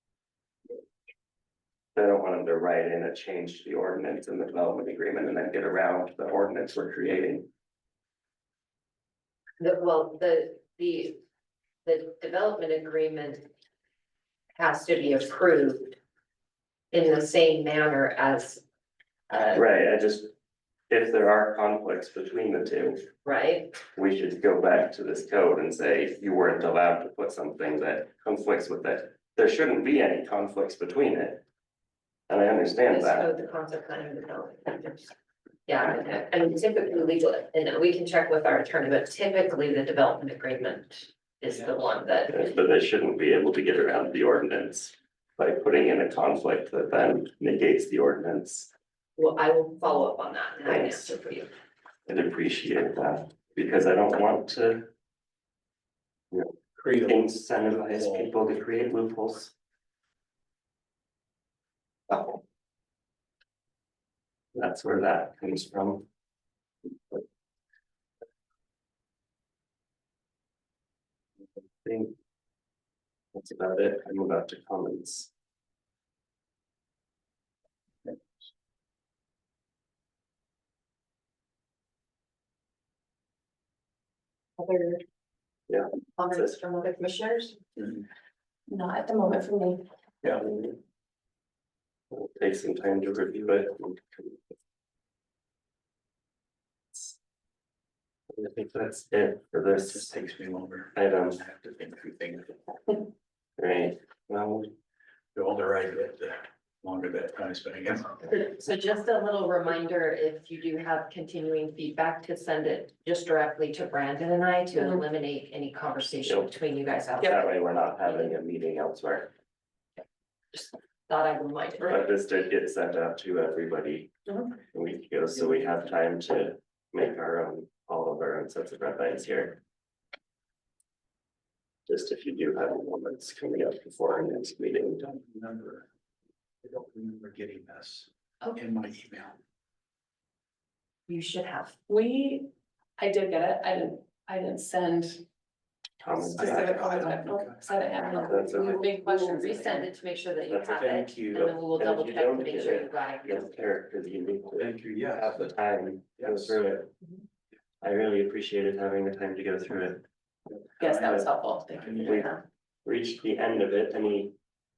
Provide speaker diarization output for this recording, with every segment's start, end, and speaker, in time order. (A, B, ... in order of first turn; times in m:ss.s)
0:01.9-0:07.5 A
0:09.6-0:11.2 B
0:11.8-0:13.5 B
0:14.6-0:16.0 B
0:16.9-0:18.6 B
0:19.3-0:19.6 B
0:19.5-0:20.3 A
0:20.9-0:23.1 A
0:23.2-0:23.7 B
0:23.9-0:31.4 A
0:32.3-0:33.3 A
0:32.9-0:35.1 B
0:35.7-0:42.5 B
0:42.3-0:48.7 A
0:49.2-0:51.5 B
0:50.6-0:51.1 A
0:52.1-0:54.9 A
0:56.3-0:59.5 A
1:02.1-1:02.4 A
1:04.5-1:06.0 A
1:11.8-1:12.1 A
1:13.3-1:15.3 A
1:24.6-1:25.0 B
1:25.7-1:26.5 A
1:26.2-1:27.6 B
1:28.7-1:29.8 C
1:30.4-1:30.8 A
1:32.1-1:34.4 A
1:38.3-1:40.2 A
1:40.1-1:40.8 D
1:40.9-1:41.4 A
1:41.4-1:42.6 D
1:43.6-1:44.7 A
1:45.4-1:48.3 D
1:48.4-1:58.3 B
1:57.2-1:59.3 A
2:00.5-2:02.0 B
2:01.8-2:04.1 A
2:04.7-2:09.6 A
2:11.9-2:15.0 A
2:15.1-2:15.8 D
2:16.6-2:19.4 D
2:21.1-2:21.8 B
2:21.9-2:25.2 C
2:26.0-2:27.1 A
2:26.3-2:29.9 C
2:26.4-2:27.6 D
2:28.0-2:33.6 B
2:28.2-2:28.8 A
2:30.5-2:31.0 A
2:30.9-2:31.5 D
2:31.7-2:36.9 A
2:34.6-2:35.4 D
2:36.2-2:36.5 D
2:37.8-2:40.0 A
2:40.8-2:42.4 C
2:40.9-2:41.2 A
2:42.0-2:42.3 A
2:42.8-2:44.3 A